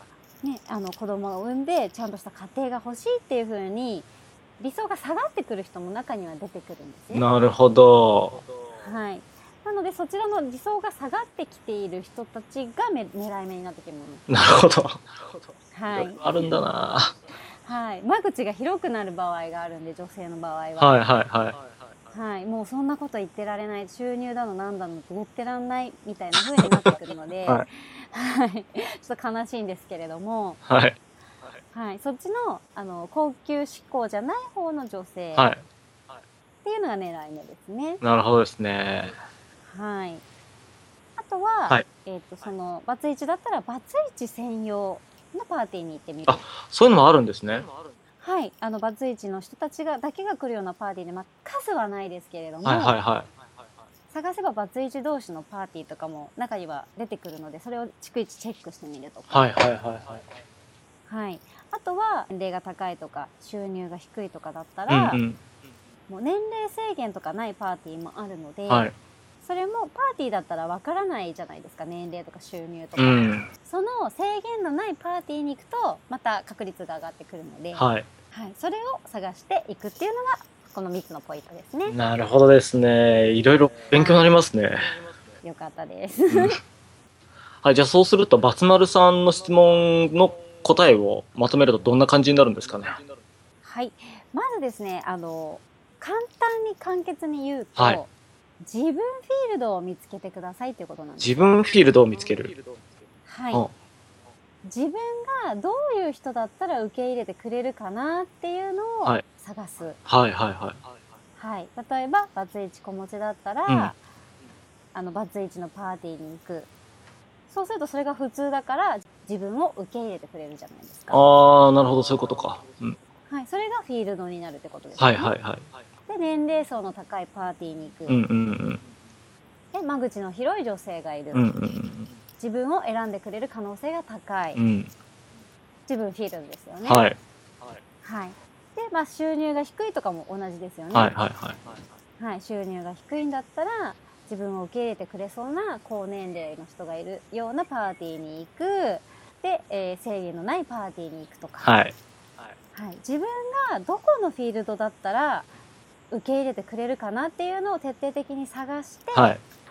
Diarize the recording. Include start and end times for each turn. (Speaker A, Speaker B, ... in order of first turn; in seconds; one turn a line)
Speaker A: 0.4-4.1
Speaker A: 4.6-7.3
Speaker B: 7.1-8.4
Speaker A: 8.8-14.2
Speaker B: 14.3-15.0
Speaker A: 15.7-16.2
Speaker B: 15.9-17.1
Speaker A: 17.6-21.0
Speaker B: 20.8-21.6
Speaker A: 22.1-30.6
Speaker B: 26.3-26.9
Speaker B: 30.6-30.9
Speaker A: 31.7-35.5
Speaker B: 35.3-35.6
Speaker A: 36.6-38.0
Speaker B: 38.0-39.1
Speaker A: 39.7-40.2
Speaker A: 41.2-46.5
Speaker B: 46.3-47.7
Speaker A: 48.2-53.0
Speaker B: 52.6-53.3
Speaker A: 54.1-59.5
Speaker B: 59.3-60.2
Speaker A: 61.1-65.2
Speaker B: 64.9-65.4
Speaker A: 66.1-68.9
Speaker B: 68.7-68.9
Speaker A: 69.4-82.0
Speaker B: 73.0-73.5
Speaker B: 77.7-78.1
Speaker B: 81.9-85.0
Speaker A: 83.9-84.3
Speaker A: 85.4-86.6
Speaker B: 86.3-86.6
Speaker B: 87.6-93.0
Speaker A: 93.6-101.4
Speaker B: 97.8-98.0
Speaker B: 101.2-102.5
Speaker A: 103.3-103.6
Speaker A: 104.6-110.0
Speaker B: 110.0-110.8
Speaker A: 111.4-114.0
Speaker B: 113.7-113.9
Speaker A: 114.9-116.7
Speaker A: 117.5-121.2
Speaker B: 121.1-123.0
Speaker A: 123.3-125.3
Speaker B: 125.0-125.7
Speaker A: 126.1-128.2
Speaker B: 128.1-128.8
Speaker A: 129.7-131.4
Speaker B: 131.3-132.1
Speaker A: 132.4-134.6
Speaker B: 134.6-134.9
Speaker A: 135.9-137.1
Speaker B: 136.8-137.2
Speaker A: 138.0-141.1
Speaker B: 140.9-141.7
Speaker A: 142.2-151.7
Speaker B: 151.6-151.9
Speaker A: 152.7-155.5
Speaker A: 156.1-159.3
Speaker B: 159.1-159.4